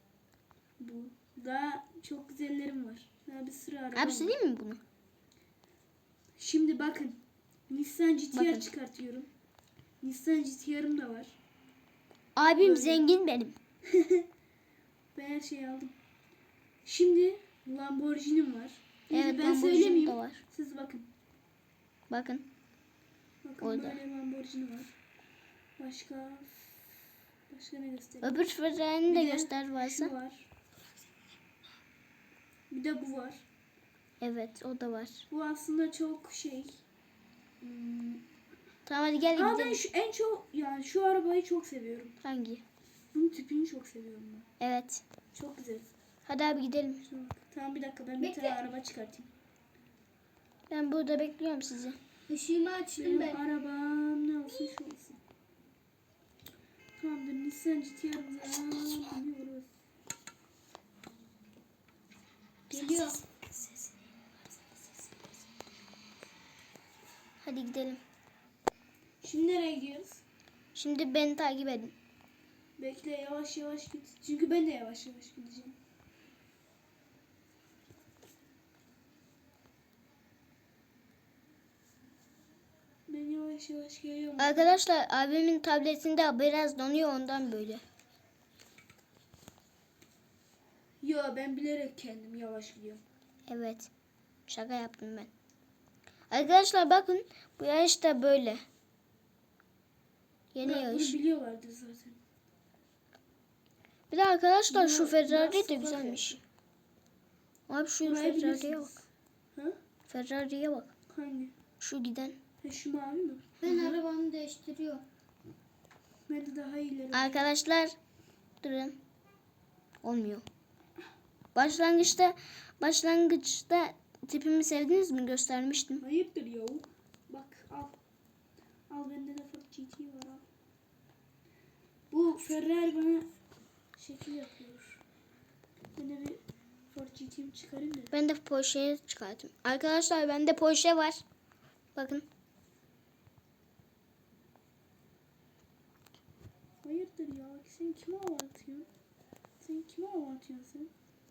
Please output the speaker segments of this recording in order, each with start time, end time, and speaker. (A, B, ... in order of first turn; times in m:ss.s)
0:00.8-0:04.3 A
0:04.0-0:04.8 B
0:06.4-0:09.3 A
0:08.3-0:08.7 B
0:10.0-0:11.4 A
0:12.4-0:13.6 B
0:12.6-0:13.1 A
0:13.9-0:14.3 A
0:15.2-0:16.0 A
0:16.8-0:21.1 A
0:19.1-0:20.4 B
0:22.1-0:22.5 B
0:23.4-0:24.9 A
0:23.6-0:24.0 B
0:25.8-0:27.0 A
0:27.5-0:28.4 A
0:28.2-0:30.1 B
0:29.1-0:30.5 A
0:32.7-0:33.4 A
0:34.2-0:35.2 B
0:35.3-0:36.8 A
0:37.6-0:38.2 A
0:38.9-0:39.8 B
0:39.4-0:42.2 A
0:42.2-0:42.6 B
0:43.1-0:44.5 A
0:44.6-0:45.0 B
0:45.3-0:45.9 A
0:46.2-0:47.0 B
0:47.1-0:49.3 A
0:48.2-0:48.6 C
0:50.7-0:52.0 B
0:52.3-0:53.4 C
0:53.0-0:55.2 A
0:57.0-0:59.7 A
1:02.7-1:03.2 A
1:02.7-1:03.2 C
1:07.4-1:08.0 B
1:09.2-1:10.2 A
1:10.8-1:12.0 B
1:12.8-1:15.8 A
1:23.1-1:24.7 A
1:24.4-1:27.8 B
1:31.0-1:33.0 A
1:33.5-1:33.9 B
1:34.5-1:35.3 B
1:36.3-1:38.6 B
1:40.5-1:41.2 B
1:40.6-1:42.2 A
1:44.1-1:46.4 B
1:44.7-1:46.4 A
1:47.7-1:49.0 B
1:48.0-1:49.0 A
1:50.1-1:50.9 B
1:51.1-1:51.5 A
1:51.8-1:52.4 B
1:52.6-1:54.0 A
1:53.6-1:55.0 C
1:56.3-1:57.4 A
1:57.1-1:57.9 B
1:58.6-1:59.0 B
2:00.0-2:00.4 B
2:01.6-2:06.0 B
2:06.0-2:08.0 A
2:08.9-2:10.4 A
2:12.1-2:13.3 A
2:14.0-2:15.0 A
2:16.0-2:16.4 A
2:16.9-2:18.1 A
2:18.1-2:21.2 B
2:22.0-2:22.3 B
2:26.8-2:28.9 A
2:29.6-2:30.9 A